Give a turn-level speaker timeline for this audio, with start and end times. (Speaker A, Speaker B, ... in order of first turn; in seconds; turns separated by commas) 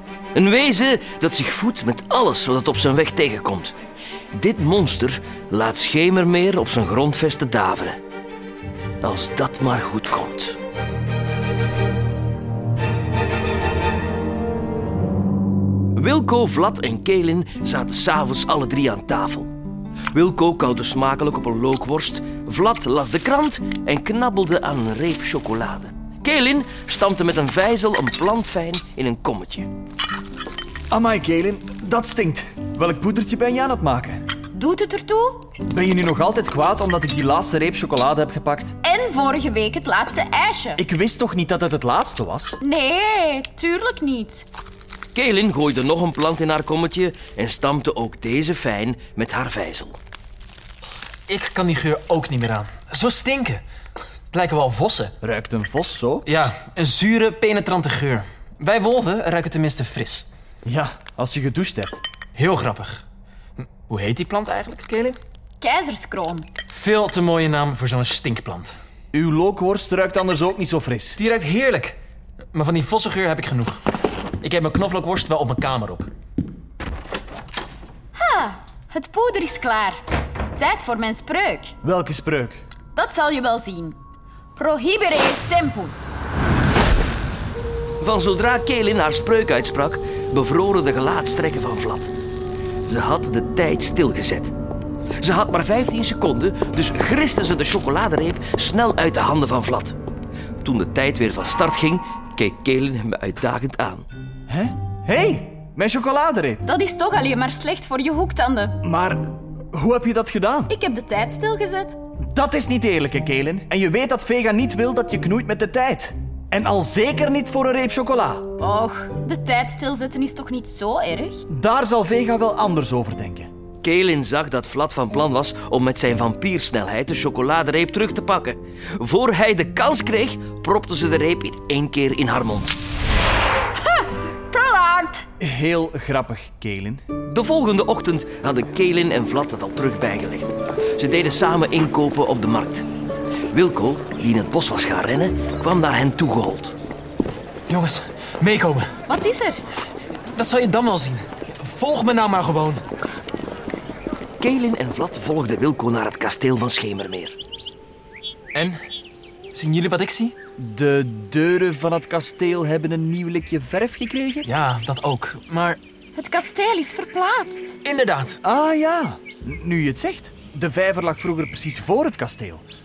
Speaker A: 0.3-3.8, Speaker A: 4.3-8.0, Speaker A: 9.0-10.6, Speaker A: 15.9-19.5, Speaker A: 20.1-29.7, Speaker B: 30.9-34.2, Speaker C: 34.5-35.5, Speaker B: 35.7-38.8, Speaker C: 38.8-40.8, Speaker B: 40.8-42.6, Speaker C: 42.6-44.5, Speaker A: 45.1-50.0, Speaker D: 51.3-53.6, Speaker D: 54.3-55.1, Speaker B: 55.2-56.2, Speaker D: 56.3-60.3, Speaker B: 60.6-62.0, Speaker D: 62.4-63.0, Speaker D: 63.6-65.2, Speaker C: 65.6-66.5, Speaker D: 66.7-68.8, Speaker B: 69.1-71.2, Speaker D: 71.2-72.0, Speaker D: 72.5-73.8, Speaker D: 74.4-76.1, Speaker C: 78.2-80.0, Speaker C: 80.6-81.7, Speaker B: 81.8-82.6, Speaker C: 83.0-84.0, Speaker C: 84.6-86.2, Speaker A: 88.0-92.1, Speaker A: 92.9-94.5, Speaker A: 95.2-100.0, Speaker A: 100.6-104.1, Speaker B: 104.5-106.6, Speaker C: 106.6-108.8, Speaker B: 108.8-110.7, Speaker C: 110.7-112.0, Speaker B: 112.3-118.5, Speaker C: 118.6-121.5, Speaker B: 121.5-123.5, Speaker A: 123.8-132.8, Speaker C: 133.9-135.2, Speaker B: 135.4-137.1, Speaker A: 137.2-142.9, Speaker A: 143.5-146.8, Speaker D: 147.7-148.9, Speaker C: 149.1-149.6, Speaker D: 150.3-152.8, Speaker A: 154.4-157.4, Speaker D: 158.5-158.8, Speaker D: 159.5-160.4, Speaker B: 160.6-164.5, Speaker D: 164.4-165.8, Speaker C: 166.2-167.8, Speaker D: 167.8-168.4, Speaker B: 168.4-172.6